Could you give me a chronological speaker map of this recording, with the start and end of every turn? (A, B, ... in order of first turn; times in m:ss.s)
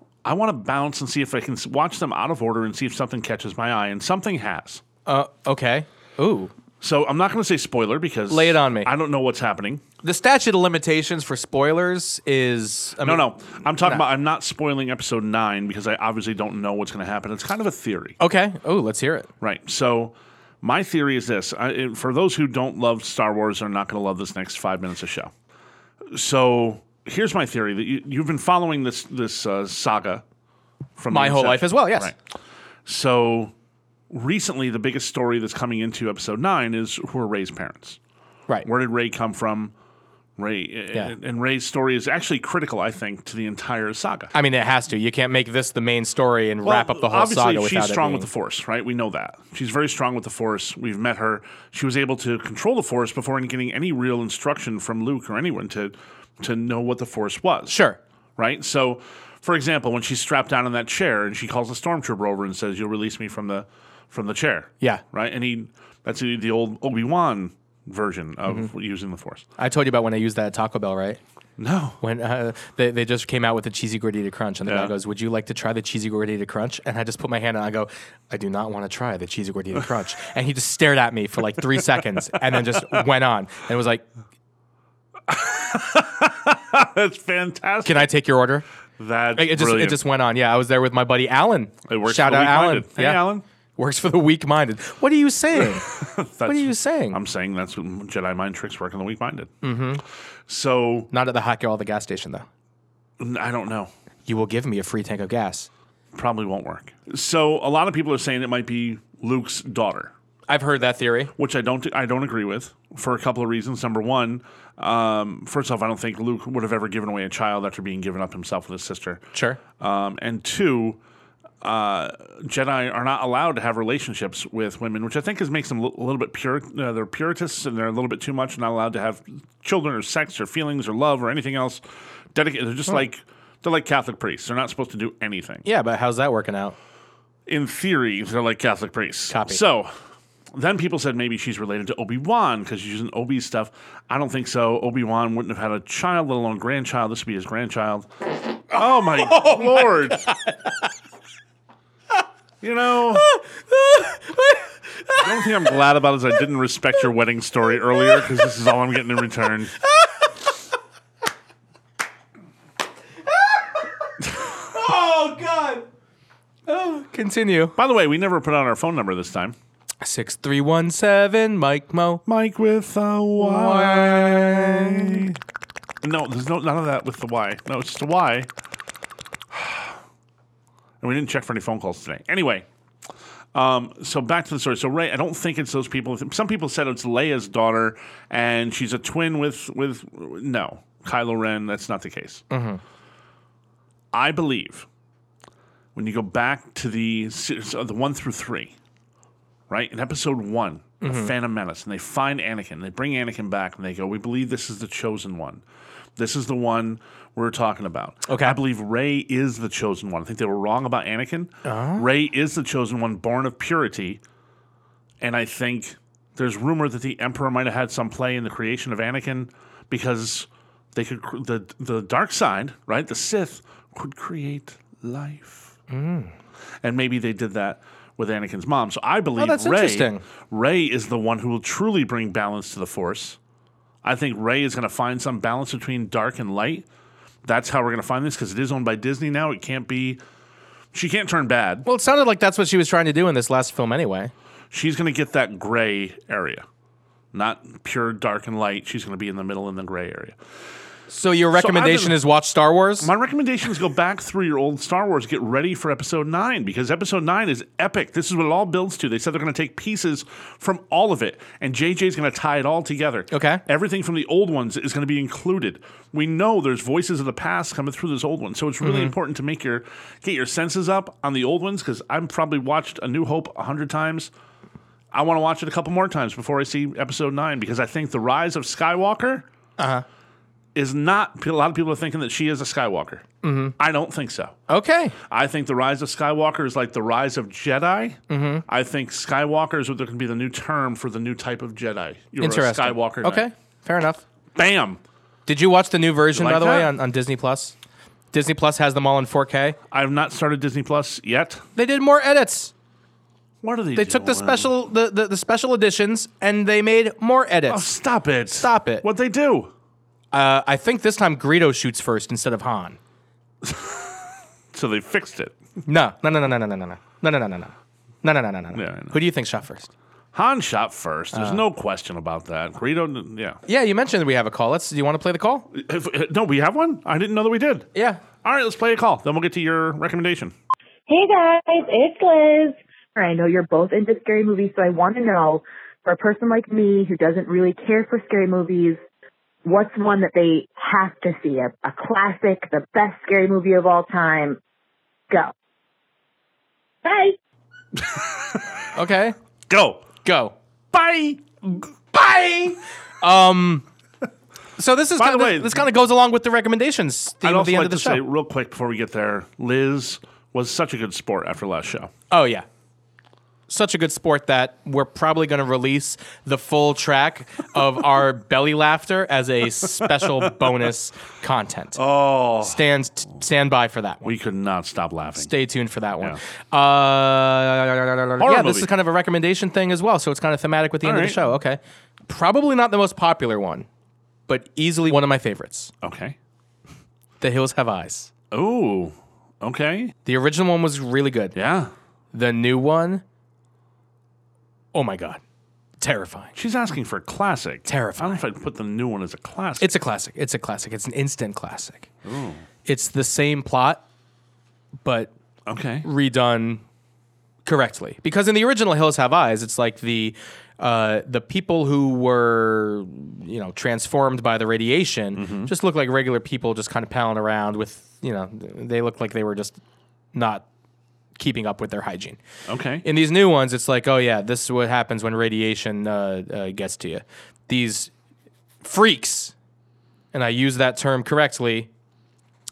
0:00.2-0:04.8 A
0:05.0-0:06.5 B
0:06.8-0:09.8 A
0:08.3-0:08.9 B
0:10.0-0:13.3 B
0:13.0-0:18.2 A
0:18.2-0:19.3 B
0:19.4-0:25.3 A
0:26.1-0:30.2 A
0:31.0-0:32.2 A
0:31.1-0:32.1 B
0:32.8-0:33.5 A
0:34.1-0:38.0 A
0:38.6-0:39.7 A
0:40.4-0:44.3 A
0:44.3-0:48.3 B
0:46.6-0:57.7 A
0:57.7-0:58.0 B
0:58.4-1:09.4 A
1:09.6-1:11.2 B
1:11.6-1:12.0 A
1:12.0-1:24.0 B
1:14.6-1:14.9 A
1:25.3-1:28.1 A
1:27.8-1:28.6 B
1:29.0-1:30.0 A
1:29.3-1:35.9 B
1:31.9-1:33.4 A
1:35.6-1:39.5 A
1:36.4-1:37.2 B
1:39.6-1:40.0 B
1:40.5-1:41.1 A
1:41.1-1:42.4 B
1:43.2-1:43.9 A
1:44.2-1:45.7 B
1:46.1-1:50.1 A
1:50.5-1:51.3 B
1:51.4-1:59.2 A
1:59.3-1:59.6 B
1:59.8-2:01.0 A
2:01.6-2:11.8 A
2:12.3-2:15.6 A
2:15.6-2:16.8 B
2:17.5-2:19.9 A
2:19.3-2:19.6 B
2:20.5-2:28.1 A
2:28.7-2:30.3 A
2:28.8-2:30.8 B
2:32.6-2:33.3 A
2:33.1-2:35.8 B
2:35.2-2:39.8 A
2:37.8-2:38.4 B
2:39.8-2:40.5 B
2:43.3-2:45.8 B
2:46.7-2:47.8 B
2:47.8-2:49.5 A
2:50.0-2:52.2 B
2:52.2-2:55.4 A
2:53.4-2:55.3 B
2:56.0-2:58.5 A
2:59.5-3:00.0 A
3:01.0-3:02.6 A
3:03.5-3:12.4 A
3:12.5-3:12.8 B
3:14.1-3:14.8 A
3:15.9-3:18.7 A
3:19.7-3:25.6 A
3:21.0-3:21.3 B
3:26.2-3:34.2 A
3:28.2-3:28.6 B
3:31.6-3:32.0 B
3:35.2-3:45.7 A
3:45.9-3:46.3 B
3:46.8-3:53.4 A
3:49.4-3:50.2 B
3:54.0-3:56.8 A
3:57.4-4:00.2 A
4:00.9-4:01.8 A
4:01.8-4:04.3 B
4:04.7-4:06.6 A
4:07.3-4:10.4 A
4:11.1-4:13.1 B
4:11.5-4:12.2 A
4:13.0-4:34.3 A
4:23.3-4:23.6 B
4:28.8-4:29.1 B
4:35.1-4:39.4 A
4:39.8-4:40.0 B
4:40.7-4:43.2 A
4:43.4-4:43.8 B
4:43.8-4:44.6 A
4:44.7-4:45.2 B
4:45.3-4:53.5 A
4:48.3-4:48.6 B
4:52.4-4:54.2 B
4:54.5-4:55.0 A
4:55.5-4:57.7 B
4:56.3-4:56.9 A
4:58.3-4:59.8 B
4:59.9-5:01.6 A
5:01.8-5:02.7 B
5:03.6-5:04.7 A
5:03.9-5:07.9 B
5:07.7-5:09.7 A
5:08.6-5:09.0 B
5:10.3-5:13.0 B
5:13.6-5:14.1 A
5:14.7-5:15.5 A
5:15.8-5:19.9 B
5:18.7-5:19.2 A
5:20.3-5:23.6 A
5:21.3-5:21.6 B
5:23.6-5:25.7 B
5:25.7-5:27.9 A
5:27.9-5:28.2 B
5:28.4-5:30.5 A
5:31.1-5:39.0 C
5:39.6-5:44.6 C
5:47.0-5:47.3 C
5:47.9-5:48.6 A
5:48.9-5:49.4 B
5:49.7-5:50.0 A
5:50.2-5:50.5 B
5:50.9-5:51.9 A
5:52.1-5:53.8 B
5:54.8-5:58.2 B
5:55.2-5:55.8 A
5:57.4-6:02.1 A
6:02.3-6:02.6 B
6:03.7-6:12.0 B
6:11.9-6:12.8 A
6:12.6-6:14.3 B
6:14.2-6:15.5 A
6:15.3-6:23.9 B
6:18.4-6:18.9 A
6:21.0-6:21.4 A
6:24.5-6:25.9 B
6:26.0-6:26.4 A
6:27.4-6:28.3 B
6:28.5-6:30.1 A
6:30.2-6:31.6 B
6:31.5-6:31.9 A
6:32.3-6:33.2 B
6:34.9-6:35.4 B
6:36.0-6:36.5 B
6:36.5-6:39.9 A
6:37.8-6:38.4 B
6:39.8-6:42.1 B
6:42.2-6:42.6 A
6:42.8-6:44.0 B
6:45.0-6:45.3 B
6:45.6-6:46.1 A
6:46.0-6:46.8 B
6:47.6-6:59.8 B
6:55.3-6:55.7 A
7:00.3-7:00.6 B
7:01.4-7:02.4 B
7:02.7-7:03.0 A
7:03.0-7:08.1 B
7:08.8-7:09.5 B
7:10.3-7:11.9 B